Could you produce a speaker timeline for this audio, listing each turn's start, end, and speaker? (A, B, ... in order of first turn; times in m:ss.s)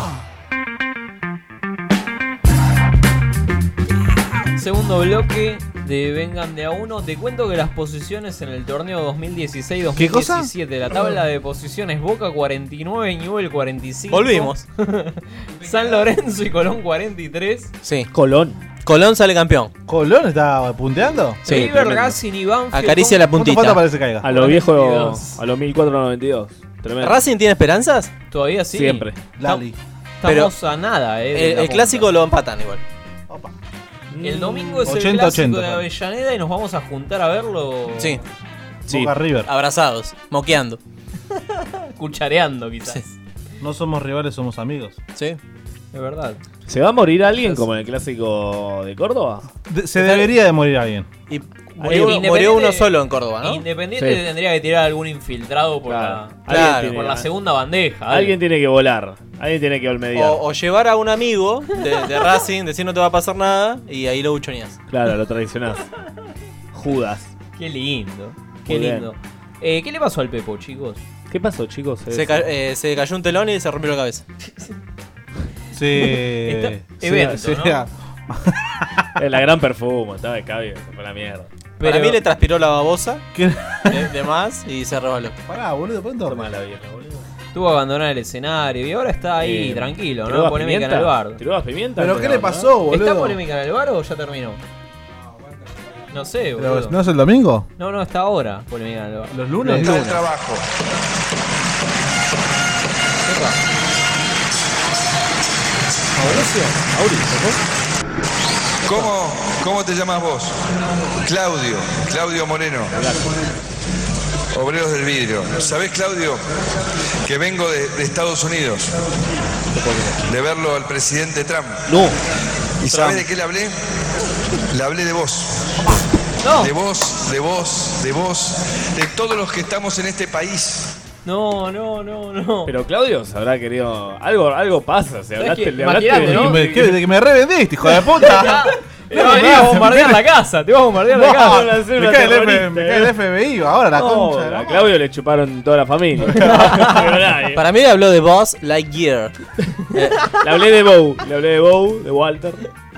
0:04.6-0:17.7 A
0:10.0-0:10.5 B
0:14.1-0:14.6 C
0:17.8-0:18.1 C
0:18.1-0:18.7 D
0:18.8-0:19.7 C
0:19.9-0:21.4 B
0:21.4-0:21.7 C
0:21.4-0:22.2 D
0:21.4-0:23.2 A
0:22.7-0:23.8 C
0:23.3-0:24.3 B
0:24.2-0:27.2 D
0:24.3-0:25.4 A
0:27.0-0:28.1 C
0:28.3-0:29.7 A
0:28.7-0:29.2 D
0:29.4-0:29.8 B
0:30.2-0:32.1 A
0:30.2-0:30.5 C
0:31.3-0:32.8 C
0:33.3-0:33.5 B
0:34.1-0:35.0 D
0:34.2-0:38.2 A
0:34.8-0:35.9 B
0:38.9-0:39.5 B
0:38.9-0:39.2 D
0:39.4-0:40.8 C
0:42.0-0:43.1 A
0:43.6-0:45.0 B
0:45.9-0:46.4 A
0:46.7-0:49.5 D
0:49.7-0:51.1 B
0:50.0-0:50.3 C
0:51.3-0:53.6 C
0:51.8-0:58.4 A
0:51.8-0:52.2 D
0:54.0-0:54.2 D
0:55.9-0:57.3 D
0:56.5-0:57.0 C
0:58.1-1:00.4 D
1:00.2-1:04.8 C
1:04.9-1:05.9 D
1:06.7-1:07.3 D
1:07.6-1:11.0 A
1:08.7-1:09.1 D
1:11.3-1:12.5 D
1:12.1-1:14.2 C
1:15.7-1:19.1 B
1:16.4-1:17.8 A
1:19.2-1:21.5 D
1:21.8-1:22.1 A
1:21.8-1:23.2 C
1:23.3-1:24.1 B
1:23.9-1:25.4 C
1:25.5-1:26.5 B
1:26.2-1:27.2 D
1:27.5-1:31.4 A
1:29.4-1:32.7 D
1:32.0-1:33.4 B
1:32.9-1:34.6 A
1:36.1-1:37.0 A
1:36.6-1:37.7 B
1:37.8-1:40.0 A
1:39.3-1:40.2 B
1:39.6-1:40.6 E
1:43.2-1:43.6 A
1:46.2-1:47.6 D
1:46.2-1:46.5 B
1:48.8-1:50.6 E
1:51.2-1:53.0 E
1:52.9-1:53.4 D
1:54.5-1:56.4 E
1:57.2-1:59.0 E
1:59.7-2:00.4 D
2:00.2-2:02.0 E
2:01.9-2:02.2 D
2:02.8-2:03.8 E
2:02.9-2:03.2 C
2:04.7-2:06.0 E
2:06.4-2:06.7 A
2:06.5-2:11.0 E
2:11.2-2:12.7 A
2:12.7-2:17.1 D
2:15.4-2:16.6 A
2:16.2-2:20.2 B
2:18.0-2:21.7 A
2:19.1-2:19.7 D
2:21.1-2:24.9 B
2:21.3-2:23.2 D
2:23.9-2:27.6 D
2:26.2-2:27.1 B
2:27.5-2:29.4 C
2:29.9-2:30.4 C
2:30.4-2:32.6 D